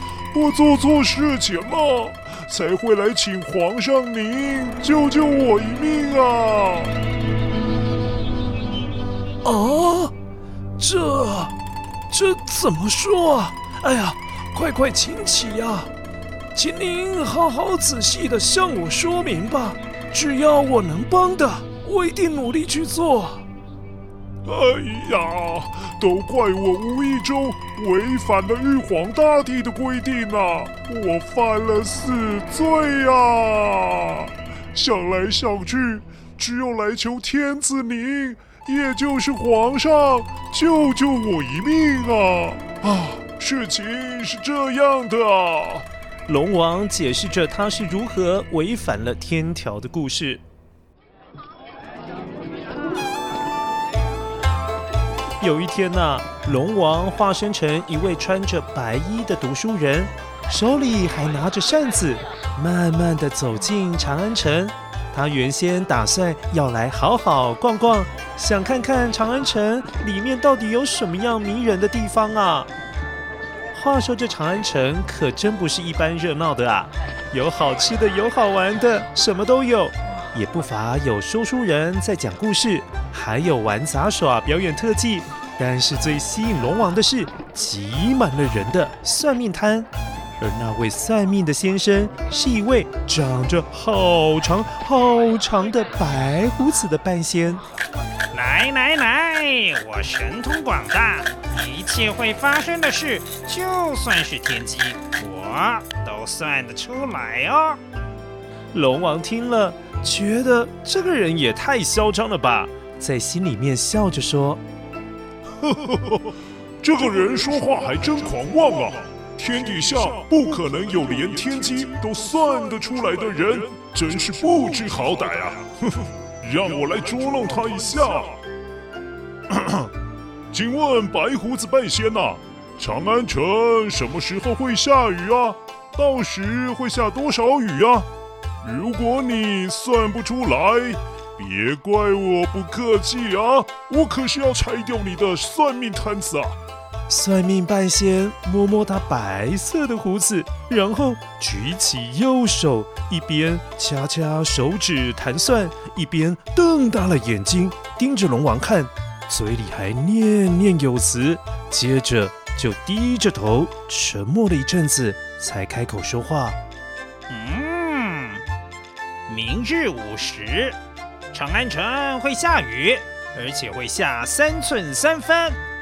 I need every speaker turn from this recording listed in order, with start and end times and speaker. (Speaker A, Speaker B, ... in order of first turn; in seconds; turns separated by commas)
Speaker A: 0.3-6.9, Speaker B: 9.4-10.1, Speaker B: 10.8-11.5, Speaker B: 12.1-15.9, Speaker B: 16.5-23.4, Speaker A: 24.4-45.9, Speaker C: 46.3-50.4, Speaker C: 55.4-72.7, Speaker C: 73.7-97.6, Speaker D: 98.3-107.8, Speaker C: 108.7-114.6, Speaker A: 115.7-116.2, Speaker A: 116.8-128.4, Speaker A: 129.5-129.9, Speaker A: 130.5-138.1, Speaker A: 138.6-146.6, Speaker C: 147.1-166.6, Speaker D: 167.3-168.4, Speaker D: 169.3-170.8, Speaker D: 171.3-175.6